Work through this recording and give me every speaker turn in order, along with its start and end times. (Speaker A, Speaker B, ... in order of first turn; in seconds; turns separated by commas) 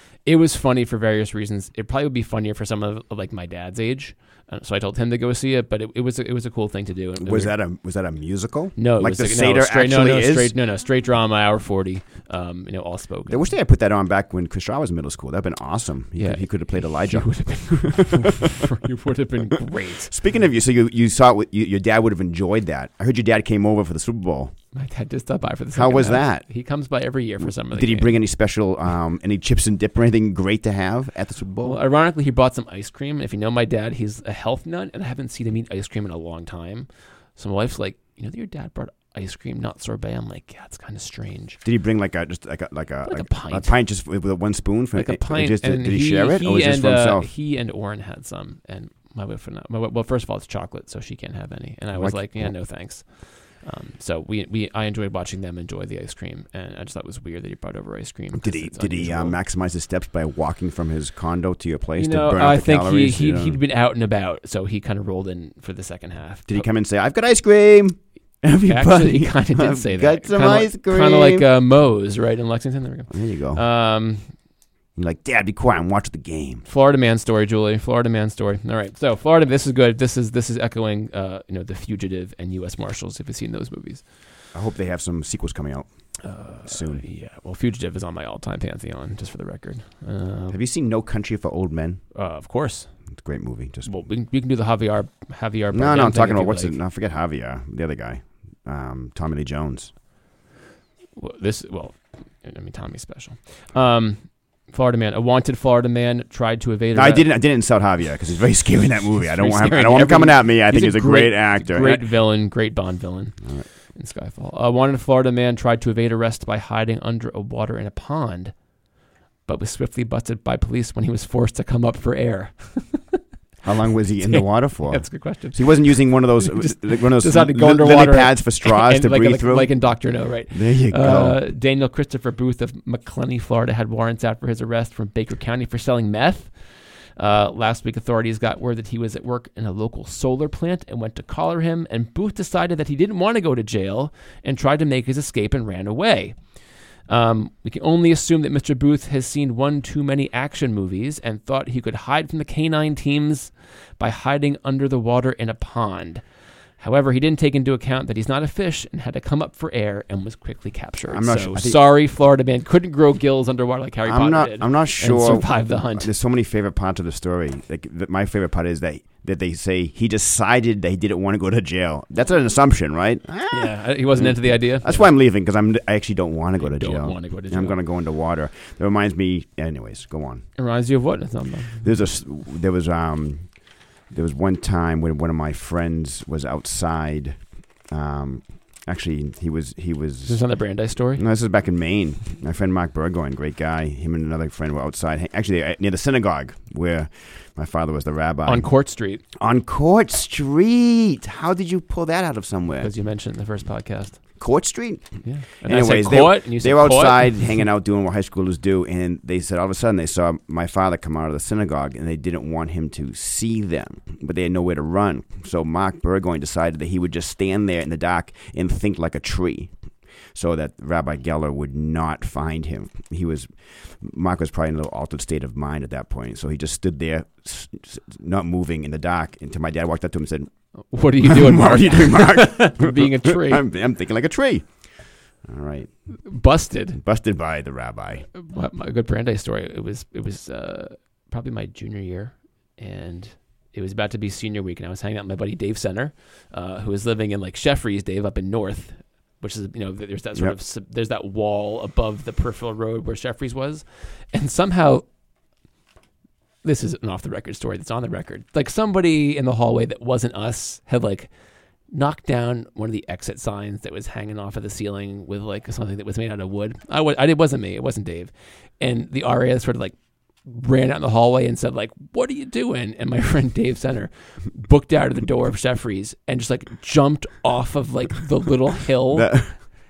Speaker A: 0.2-7.5, Speaker B: 7.2-10.5, Speaker A: 8.8-13.5, Speaker B: 13.3-18.7, Speaker A: 16.2-20.1, Speaker B: 19.6-24.5, Speaker A: 24.7-28.1, Speaker B: 25.7-26.4, Speaker B: 27.4-31.8, Speaker A: 31.6-41.6, Speaker B: 41.6-47.3, Speaker A: 43.0-43.7, Speaker A: 44.9-59.4, Speaker B: 51.9-52.5, Speaker B: 58.3-63.6, Speaker A: 62.0-66.7, Speaker B: 66.5-71.5, Speaker A: 68.7-74.3, Speaker B: 73.1-73.6, Speaker B: 75.0-76.6, Speaker A: 76.6-84.0, Speaker B: 84.5-85.9, Speaker A: 86.2-90.6, Speaker B: 86.6-87.0, Speaker B: 90.5-92.0, Speaker A: 92.1-92.9, Speaker B: 93.1-94.0, Speaker A: 93.8-96.8, Speaker B: 95.7-99.9, Speaker A: 101.2-107.3, Speaker B: 106.9-112.1, Speaker A: 109.2-118.6, Speaker B: 113.4-113.7, Speaker A: 119.5-123.2, Speaker B: 123.6-131.4, Speaker A: 124.2-156.2, Speaker A: 156.8-166.1, Speaker B: 161.1-161.8, Speaker B: 164.1-180.5, Speaker A: 173.5-175.1, Speaker A: 176.6-177.8, Speaker A: 180.6-181.9, Speaker B: 181.8-190.4, Speaker A: 190.3-191.2, Speaker B: 191.1-198.7, Speaker A: 198.4-199.2, Speaker B: 199.3-202.9, Speaker A: 202.8-204.2, Speaker B: 204.4-219.7, Speaker A: 205.2-207.6, Speaker B: 220.3-230.5, Speaker A: 230.9-233.6, Speaker B: 231.2-234.8, Speaker B: 235.4-236.2, Speaker A: 236.1-237.0, Speaker B: 236.9-238.3, Speaker A: 238.3-255.1, Speaker A: 256.6-261.3, Speaker A: 261.9-279.6, Speaker B: 279.1-279.6